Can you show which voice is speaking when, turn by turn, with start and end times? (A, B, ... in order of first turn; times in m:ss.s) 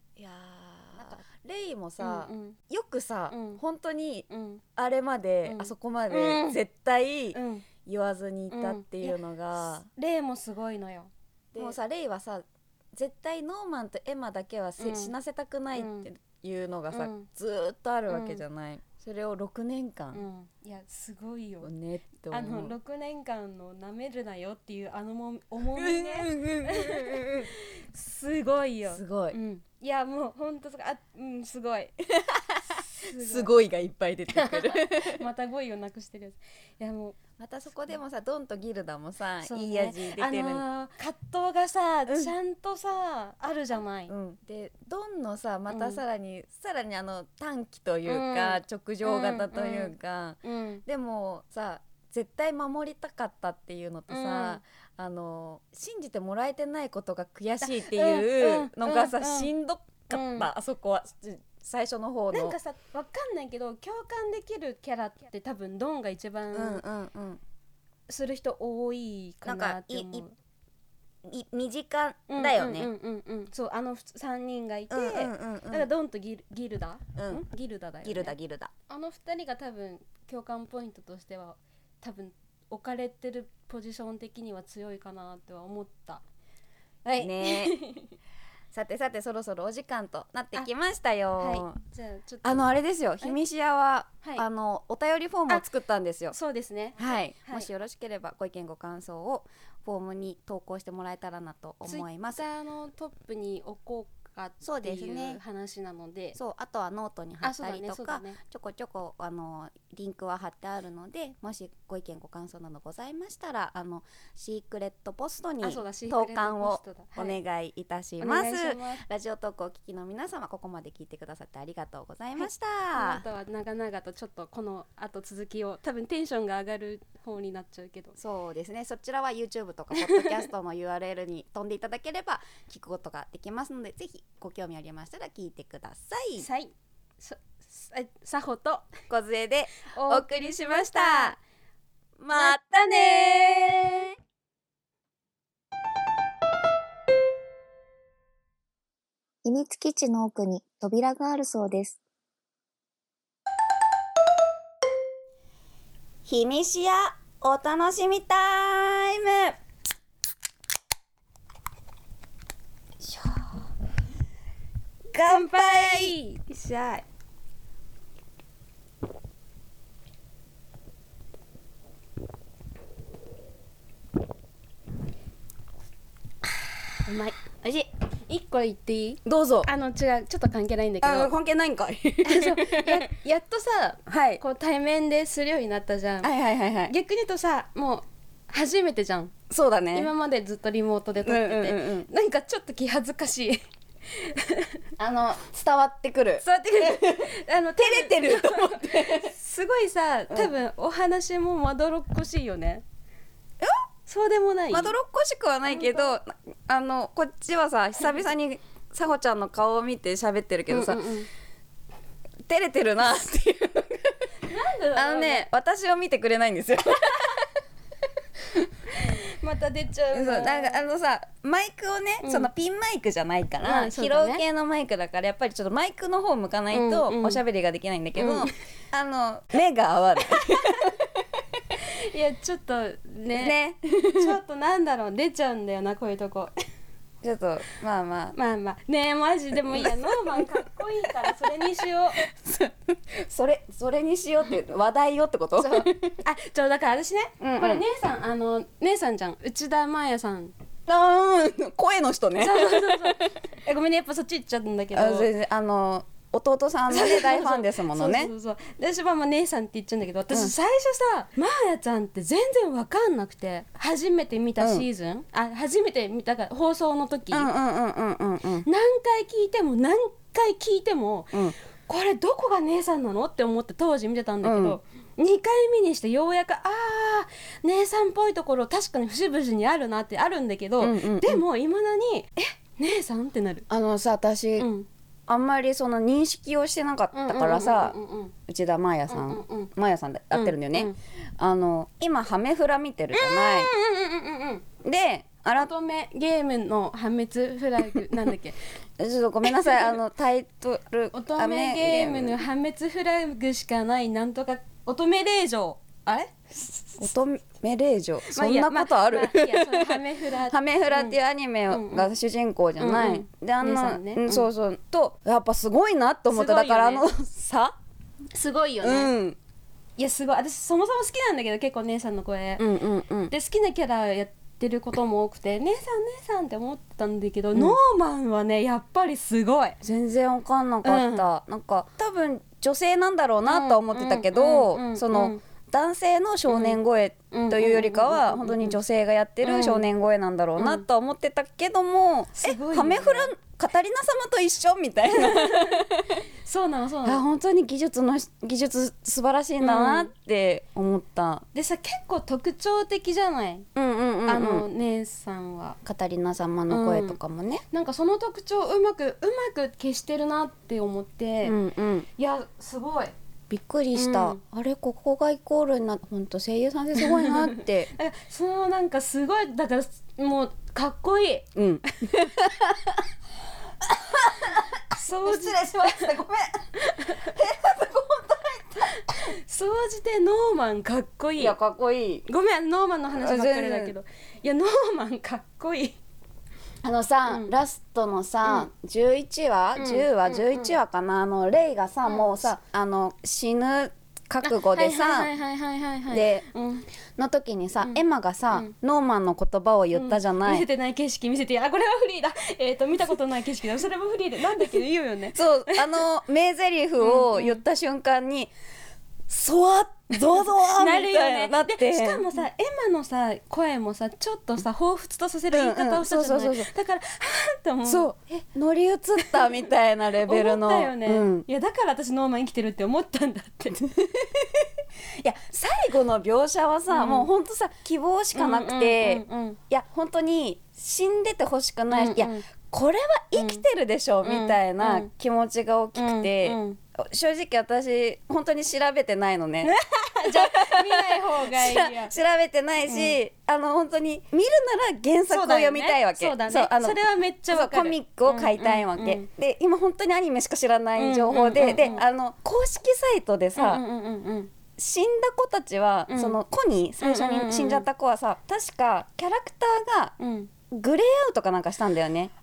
0:00.2-0:09.9 A
0:01.0-0:01.2 B
0:02.0-0:02.6 B
0:03.3-0:03.6 B
0:04.3-0:04.6 B
0:05.4-0:06.6 B
0:07.3-0:07.7 B
0:08.5-0:09.2 B
0:09.9-0:11.8 B
0:11.5-0:20.2 A
0:14.8-0:15.1 B
0:15.7-0:16.1 B
0:16.9-0:17.3 B
0:18.1-0:18.4 B
0:20.1-0:21.7 B
0:21.6-0:22.7 A
0:22.3-0:31.9 B
0:25.8-0:27.5 A
0:28.8-0:29.4 A
0:32.1-0:35.2 A
0:32.7-0:33.5 B
0:34.3-0:37.2 B
0:37.4-0:40.6 A
0:39.4-0:44.1 B
0:42.1-0:42.3 A
0:44.1-1:02.6 A
0:45.7-0:46.0 B
0:48.0-0:50.8 B
0:54.1-0:54.6 B
0:57.6-0:59.5 B
1:00.1-1:00.5 B
1:02.3-1:06.8 B
1:06.5-1:07.4 A
1:08.1-1:10.3 B
1:09.4-1:10.2 A
1:11.2-1:12.9 A
1:12.3-1:18.3 B
1:14.9-1:15.9 A
1:17.2-1:17.4 A
1:18.0-1:18.7 A
1:18.9-1:26.2 B
1:27.0-1:28.1 B
1:27.2-1:27.8 A
1:28.7-1:31.8 A
1:31.4-1:32.7 B
1:32.4-1:36.3 A
1:36.3-1:37.7 B
1:37.0-1:42.4 A
1:41.8-1:46.4 B
1:44.6-1:45.4 A
1:46.3-2:03.2 A
1:47.4-1:48.4 B
1:55.6-1:57.4 B
1:58.2-1:59.0 B
2:02.4-2:08.2 B
2:08.2-2:16.4 A
2:10.0-2:10.4 B
2:16.4-2:18.9 B
2:19.1-2:21.4 A
2:19.9-2:21.4 B
2:22.2-2:24.1 A
2:22.3-2:23.8 B
2:29.4-2:32.0 C
2:36.2-2:39.6 A
2:45.1-2:46.2 A
2:45.2-2:47.0 B
2:57.0-3:01.3 B
2:59.2-2:59.7 A
3:01.0-3:03.1 A
3:02.2-3:06.3 B
3:04.1-3:04.4 A
3:06.2-3:06.9 A
3:06.9-3:09.3 B
3:09.5-3:10.1 A
3:09.9-3:14.8 B
3:11.2-3:12.1 A
3:15.0-3:19.3 A
3:16.4-3:22.8 B
3:24.1-3:24.9 B
3:24.7-3:31.0 A
3:25.6-3:26.2 B
3:30.7-3:31.3 B
3:32.4-3:34.3 A
3:34.4-3:35.5 B
3:34.9-3:37.5 A
3:38.4-3:38.7 A
3:39.0-3:40.8 B
3:40.1-3:51.4 A
3:42.2-3:42.5 B
3:43.6-3:44.4 B
3:46.7-3:47.4 B
3:48.2-3:48.5 B
3:50.5-3:50.9 B
3:51.8-3:56.5 B
3:53.4-3:54.3 A
3:57.2-3:58.3 A
3:58.3-4:02.2 B
3:59.7-4:00.5 A
4:01.2-4:01.5 A
4:02.2-4:06.2 A
4:05.6-4:10.5 B
4:07.4-4:07.8 A
4:10.9-4:13.3 A
4:12.4-4:15.3 B
4:14.9-4:18.3 A
4:16.9-4:27.5 B
4:24.6-4:24.8 A
4:27.3-4:28.6 A
4:28.6-4:43.7 B
4:34.4-4:34.8 A
4:40.8-4:41.4 A
4:43.7-4:44.7 A
4:44.6-4:44.9 B
4:45.3-4:53.7 A
4:47.1-4:48.3 B
4:49.1-4:49.7 B
4:50.3-4:51.0 B
4:53.1-4:54.6 B
4:54.8-4:55.7 A
4:55.6-4:58.6 B
4:59.0-5:02.4 A
4:59.6-4:59.8 B
5:01.1-5:07.0 B
5:07.0-5:17.8 A
5:08.3-5:11.2 B
5:11.7-5:12.1 B
5:12.8-5:14.4 B
5:16.3-5:17.1 B
5:18.3-5:19.1 B
5:18.8-5:19.4 A
5:20.0-5:22.6 B
5:22.6-5:23.3 A
5:23.3-5:29.8 B
5:29.8-5:46.2 A
5:30.8-5:31.3 B
5:33.4-5:35.4 B
5:36.5-5:36.8 B
5:37.3-5:38.8 B
5:39.4-5:39.9 B
5:40.6-5:40.8 B
5:42.3-5:43.3 B
5:45.1-5:45.8 B
5:46.4-5:47.2 B
5:47.0-5:51.4 A
5:49.6-5:50.1 B
5:51.5-5:53.7 B
5:53.7-5:54.6 A
5:54.3-5:55.8 B
5:55.8-5:57.6 A
5:56.7-5:57.2 B
5:57.7-6:01.6 B
6:01.4-6:02.1 A
6:02.2-6:03.1 B
6:03.5-6:07.9 A
6:03.9-6:04.4 B
6:07.0-6:11.5 B
6:11.6-6:13.0 A
6:13.8-6:19.2 A
6:15.0-6:16.1 B
6:16.8-6:17.3 B
6:19.0-6:21.6 B
6:21.4-6:22.2 A
6:22.3-6:26.0 B
6:23.2-6:23.9 A
6:26.8-6:35.3 A
6:27.3-6:27.5 B
6:29.8-6:30.7 B
6:32.0-6:32.3 B
6:34.4-6:36.8 B
6:36.1-6:36.4 A
6:37.2-6:40.6 A
6:37.8-6:38.7 B
6:39.9-6:46.0 B
6:45.3-6:48.5 A
6:47.0-6:47.6 B
6:49.3-6:52.2 A
6:50.3-6:58.1 B
6:55.5-6:56.7 A
6:57.8-7:01.4 A
6:59.2-6:59.4 B
7:00.2-7:03.8 B
7:03.8-7:33.8 A
7:06.9-7:07.3 B
7:08.3-7:09.6 B
7:11.9-7:12.5 B
7:13.3-7:13.6 B
7:14.2-7:15.1 B
7:16.0-7:16.8 B
7:19.6-7:22.2 B
7:22.8-7:23.2 B
7:25.3-7:29.3 B
7:31.0-7:32.0 B
7:33.6-7:34.5 B
7:34.8-7:40.1 A
7:36.1-7:36.4 B
7:37.0-7:37.8 B
7:40.2-7:40.5 B
7:40.7-7:42.3 A